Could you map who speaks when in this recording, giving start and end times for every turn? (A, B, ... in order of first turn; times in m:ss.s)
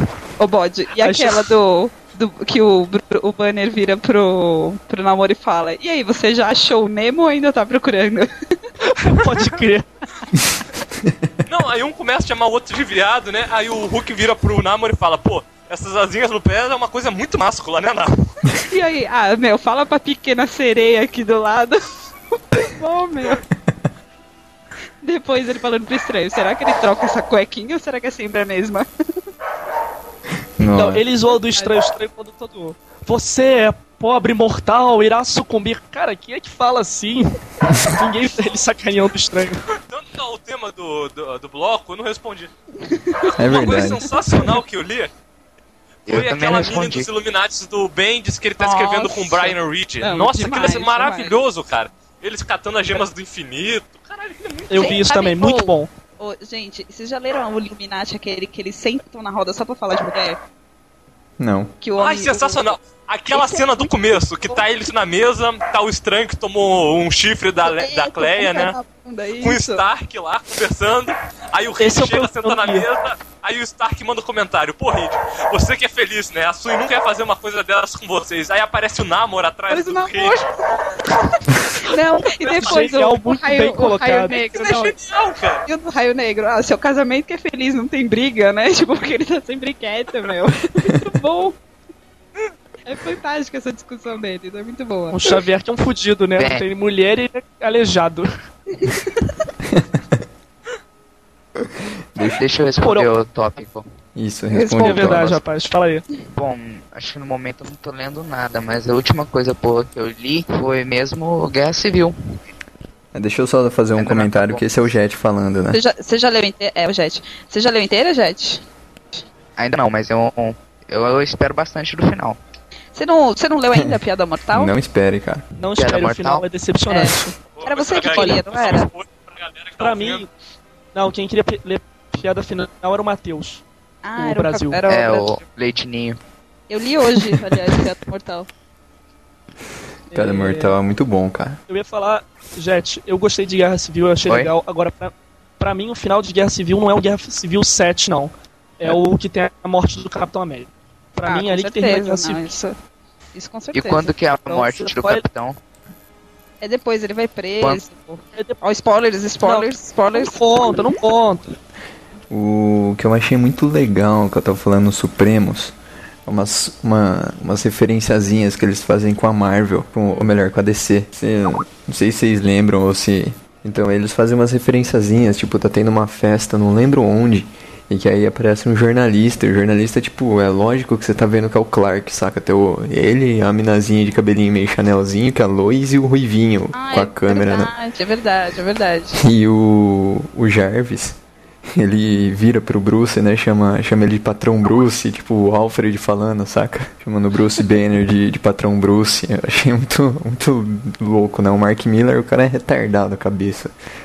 0:00.4-0:08.3 A
0:01.0-0:01.5 B
0:08.8-0:09.9 B
0:11.0-0:11.3 C
0:11.4-0:18.3 D
0:18.7-0:21.8 A
0:22.5-0:23.4 A
0:25.0-0:28.8 A
0:30.6-0:31.0 C
0:30.7-0:39.6 B
0:39.8-0:42.5 D
0:42.9-0:43.3 A
0:43.2-0:45.1 D
0:43.4-0:44.1 C
0:46.1-0:47.1 E
0:46.1-0:55.0 D
0:48.6-0:51.3 A
0:54.7-0:55.9 B
0:54.7-1:00.4 A
1:01.4-1:01.7 C
1:01.8-1:02.7 A
1:02.0-1:08.8 D
1:03.3-1:03.9 A
1:07.6-1:09.8 A
1:09.4-1:20.4 D
1:11.8-1:12.9 B
1:19.7-1:20.4 A
1:21.8-1:25.0 A
1:22.4-1:22.8 D
1:22.4-1:24.4 B
1:24.3-1:25.6 D
1:25.6-1:31.6 A
1:32.8-1:35.2 A
1:35.1-1:38.3 B
1:36.4-1:36.6 E
1:38.8-1:39.1 A
1:39.7-1:40.0 C
1:41.6-1:42.4 C
1:42.2-1:43.8 E
1:42.8-1:43.1 B
1:44.1-1:45.4 C
1:44.5-1:45.2 A
1:44.7-1:46.0 B
1:46.3-1:52.1 E
1:53.1-1:55.8 C
1:54.0-1:54.6 E
1:55.7-1:58.6 A
1:59.6-2:02.4 E
2:02.9-2:04.7 A
2:04.5-2:05.4 C
2:05.6-2:07.4 B
2:05.8-2:06.4 E
2:06.9-2:08.9 A
2:07.5-2:10.2 D
2:08.1-2:08.4 B
2:09.8-2:10.3 B
2:10.9-2:13.6 B
2:14.0-2:15.4 A
2:14.2-2:14.8 B
2:14.9-2:16.2 E
2:16.7-2:18.5 A
2:20.1-2:20.7 B
2:20.1-2:21.6 C
2:21.7-2:32.5 B
2:24.2-2:24.5 E
2:31.2-2:32.7 A
2:33.3-2:34.1 A
2:33.7-2:35.6 E
2:34.5-2:35.2 B
2:36.6-2:40.8 A
2:39.4-2:41.5 B
2:42.3-2:45.7 C
2:46.2-3:07.7 C
3:06.7-3:09.3 A
3:09.2-3:23.7 C